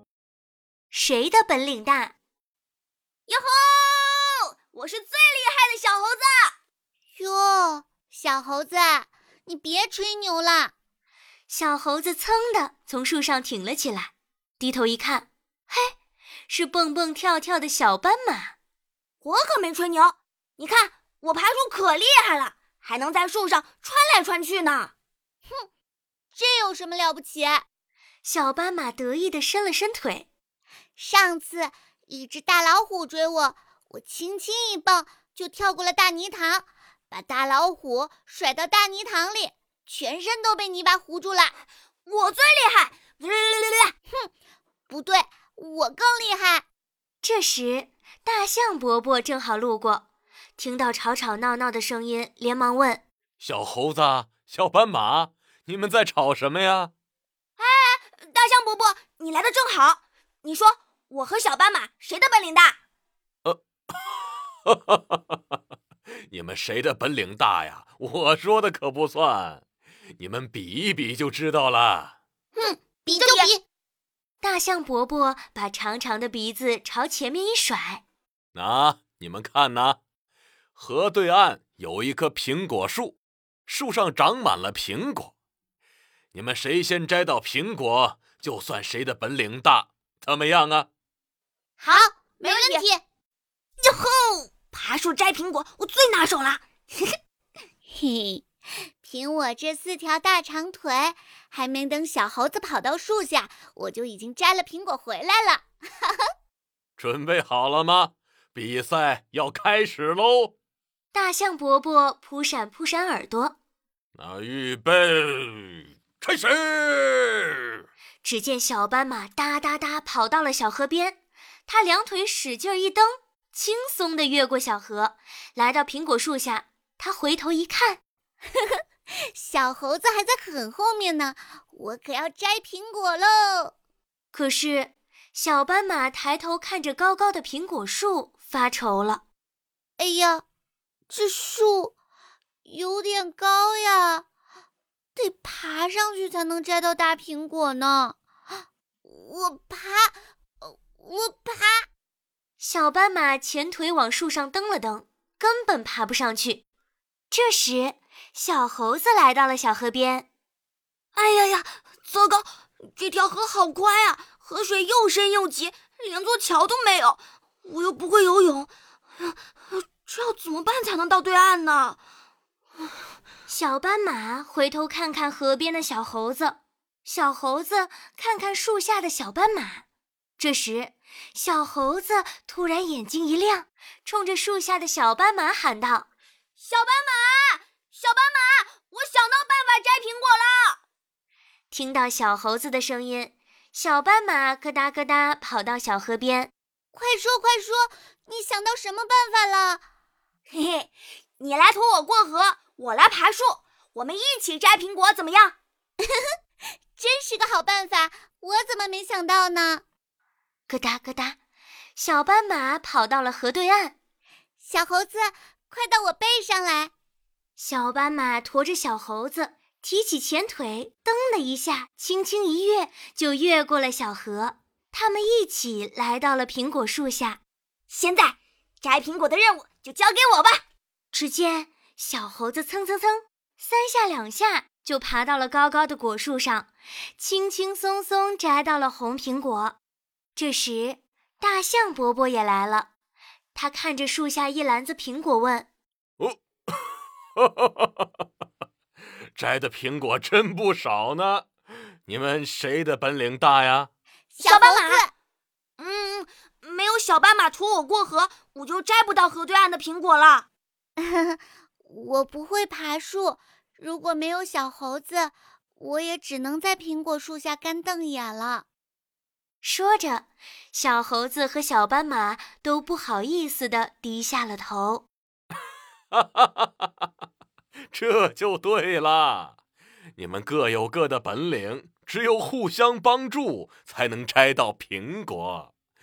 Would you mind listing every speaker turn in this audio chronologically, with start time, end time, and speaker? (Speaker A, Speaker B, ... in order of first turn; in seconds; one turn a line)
Speaker A: 0.9-2.1
Speaker B: 3.3-6.5
Speaker C: 7.2-10.7
Speaker A: 11.5-15.9
Speaker A: 16.5-18.6
Speaker B: 19.2-24.9
Speaker C: 26.4-27.7
Speaker A: 28.2-30.3
Speaker C: 31.0-41.5
Speaker B: 42.1-43.9
Speaker C: 44.9-46.6
Speaker A: 47.2-50.1
Speaker A: 50.6-53.0
Speaker D: 53.4-56.9
Speaker B: 57.6-62.8
Speaker D: 64.7-65.4
Speaker D: 66.3-69.6
Speaker D: 70.2-72.2
Speaker C: 72.6-73.6
Speaker B: 73.1-73.5
Speaker A: 74.4-78.0
Speaker D: 78.5-80.0
Speaker D: 80.8-85.3
Speaker D: 86.3-90.9
Speaker C: 91.8-93.0
Speaker B: 91.8-92.8
Speaker B: 93.8-97.1
Speaker C: 97.9-98.5
Speaker C: 99.0-106.2
Speaker D: 107.0-110.5
Speaker A: 111.1-113.6
Speaker D: 114.2-117.8
Speaker A: 118.2-128.0
Speaker C: 129.4-133.7
Speaker A: 134.3-139.2
Speaker C: 140.0-140.4
Speaker C: 141.1-141.9
Speaker C: 142.7-144.2
Speaker C: 145.2-148.2
Speaker C: 149.1-151.9
Speaker A: 152.6-156.6
Speaker A: 157.3-160.3
Speaker B: 161.2-172.0
Speaker A: 173.5-179.8
Speaker A: 180.4-186.1
Speaker B: 186.6-190.8
Speaker A: 191.7-196.5
Speaker C: 196.9-199.8
Speaker B: 200.5-205.6
Speaker C: 207.0-209.8
Speaker A: 210.7-211.4
Speaker A: 212.0-213.9
Speaker C: 214.6-216.9
Speaker A: 217.6-227.4
Speaker B: 227.9-230.6
Speaker A: 231.1-239.8
Speaker A: 240.4-242.9
Speaker A: 243.5-245.7
Speaker D: 246.2-248.2
Speaker D: 249.4-251.5
Speaker D: 252.1-253.9
Speaker C: 254.4-255.1
Speaker B: 254.4-255.0
Speaker B: 255.8-260.5
Speaker C: 261.0-268.6
Speaker A: 269.6-275.1
Speaker D: 276.1-277.1
Speaker D: 277.9-279.6
Speaker D: 280.2-285.7